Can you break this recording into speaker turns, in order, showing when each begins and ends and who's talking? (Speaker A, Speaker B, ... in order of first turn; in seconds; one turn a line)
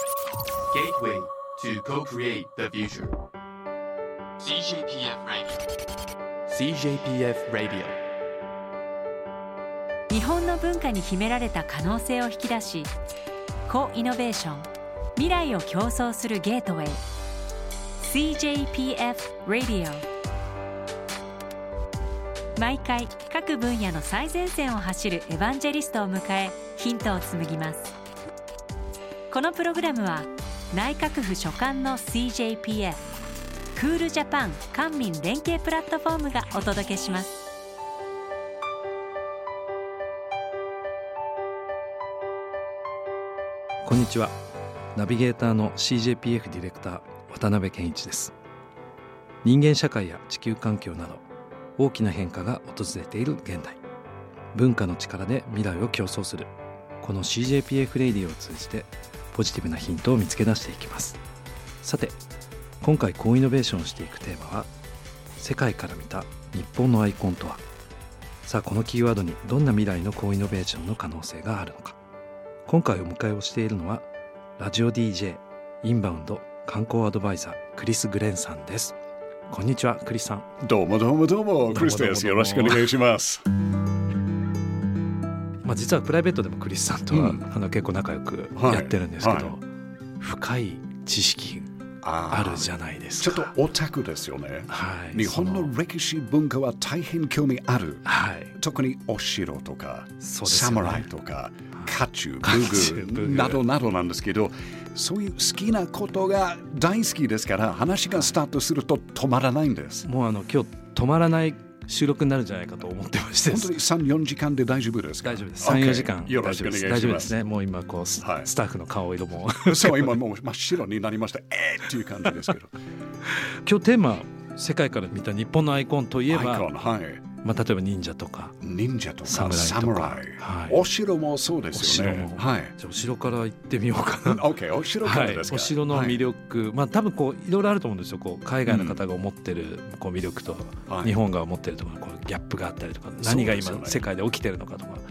Speaker A: 0.7-3.1
Speaker A: 4.4-5.6
Speaker A: 6.5-8.0
Speaker B: 10.1-12.9
Speaker B: 13.7-17.0
Speaker B: 18.0-20.1
Speaker B: 22.6-27.9
Speaker B: 29.3-33.0
Speaker B: 33.8-37.4
Speaker C: 43.8-44.4
Speaker C: 45.0-48.3
Speaker C: 49.4-51.2
Speaker C: 51.8-53.8
Speaker C: 54.5-61.2
Speaker C: 61.8-62.2
Speaker C: 62.8-64.7
Speaker C: 65.4-67.6
Speaker C: 68.5-72.0
Speaker C: 72.7-79.0
Speaker C: 79.5-80.5
Speaker D: 80.6-83.5
Speaker C: 81.7-82.9
Speaker C: 85.6-89.6
Speaker D: 87.1-87.4
Speaker D: 88.5-89.5
Speaker C: 90.2-91.7
Speaker D: 92.0-110.0
Speaker C: 92.3-93.5
Speaker C: 94.7-95.7
Speaker C: 98.0-98.5
Speaker C: 100.2-101.1
Speaker C: 101.8-103.6
Speaker C: 110.0-113.8
Speaker D: 113.5-117.4
Speaker C: 115.2-120.2
Speaker D: 118.2-118.5
Speaker D: 119.7-122.8
Speaker C: 123.3-126.7
Speaker D: 126.3-127.2
Speaker C: 127.4-128.6
Speaker D: 128.6-132.7
Speaker C: 129.2-130.8
Speaker C: 131.7-134.5
Speaker D: 134.2-136.2
Speaker C: 135.0-145.0
Speaker D: 138.7-139.0
Speaker D: 140.9-141.2
Speaker D: 143.2-144.0